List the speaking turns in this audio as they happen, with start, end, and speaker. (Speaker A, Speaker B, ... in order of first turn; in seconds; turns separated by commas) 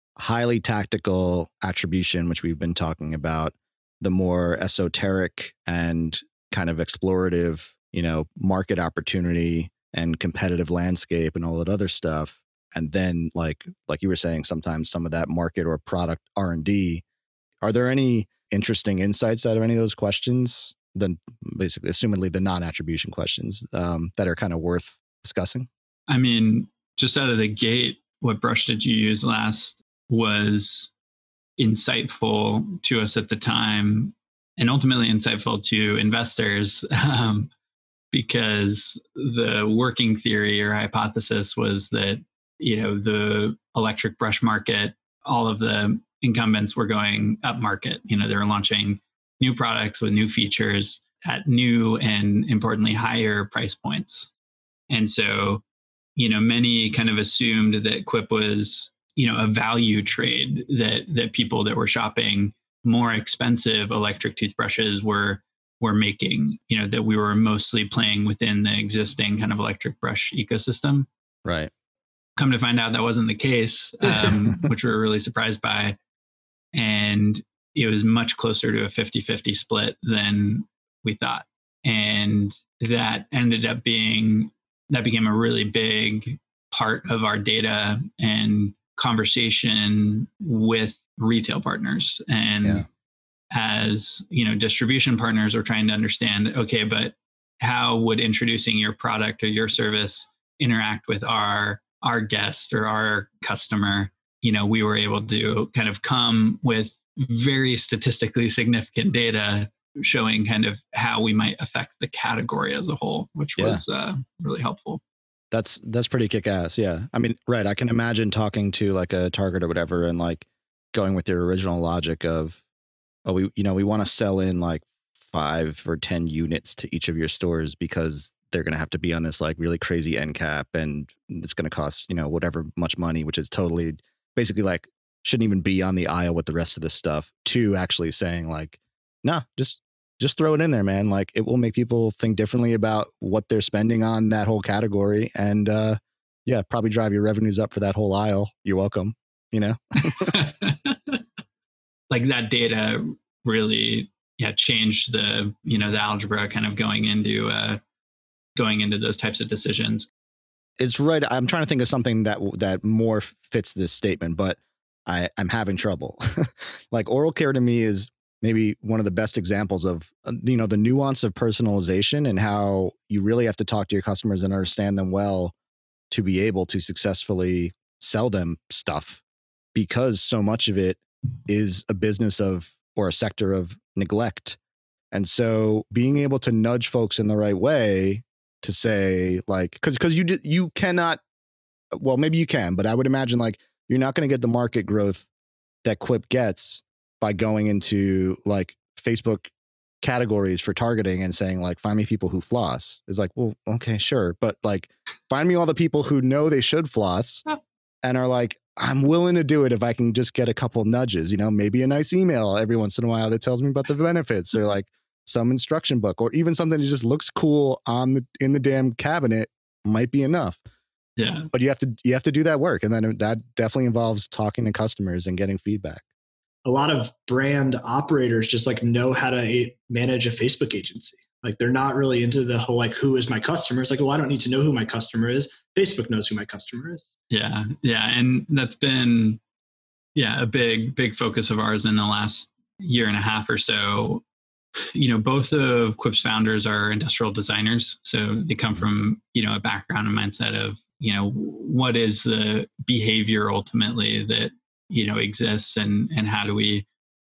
Speaker A: 0.2-17.0, Speaker A: 17.6-25.7, Speaker B: 26.1-30.9, Speaker B: 31.6-37.5, Speaker B: 38.1-54.3, Speaker B: 54.9-55.6, Speaker B: 56.2-71.1, Speaker A: 71.5-71.7, Speaker B: 72.4-76.0, Speaker B: 76.7-92.8, Speaker B: 93.5-115.0, Speaker A: 113.6-113.8, Speaker A: 115.5-122.6, Speaker A: 123.2-150.4, Speaker B: 150.0-151.2, Speaker B: 152.1-157.8, Speaker B: 158.6-160.1, Speaker A: 160.8-175.5, Speaker A: 176.1-179.2, Speaker A: 179.8-184.6, Speaker A: 185.1-191.2, Speaker A: 191.9-195.3, Speaker A: 195.8-199.5, Speaker A: 200.0-207.4, Speaker A: 208.0-220.6, Speaker B: 221.2-221.5, Speaker A: 221.5-226.0, Speaker C: 226.7-237.1, Speaker B: 237.3-239.4, Speaker B: 240.2-244.2, Speaker B: 244.9-256.9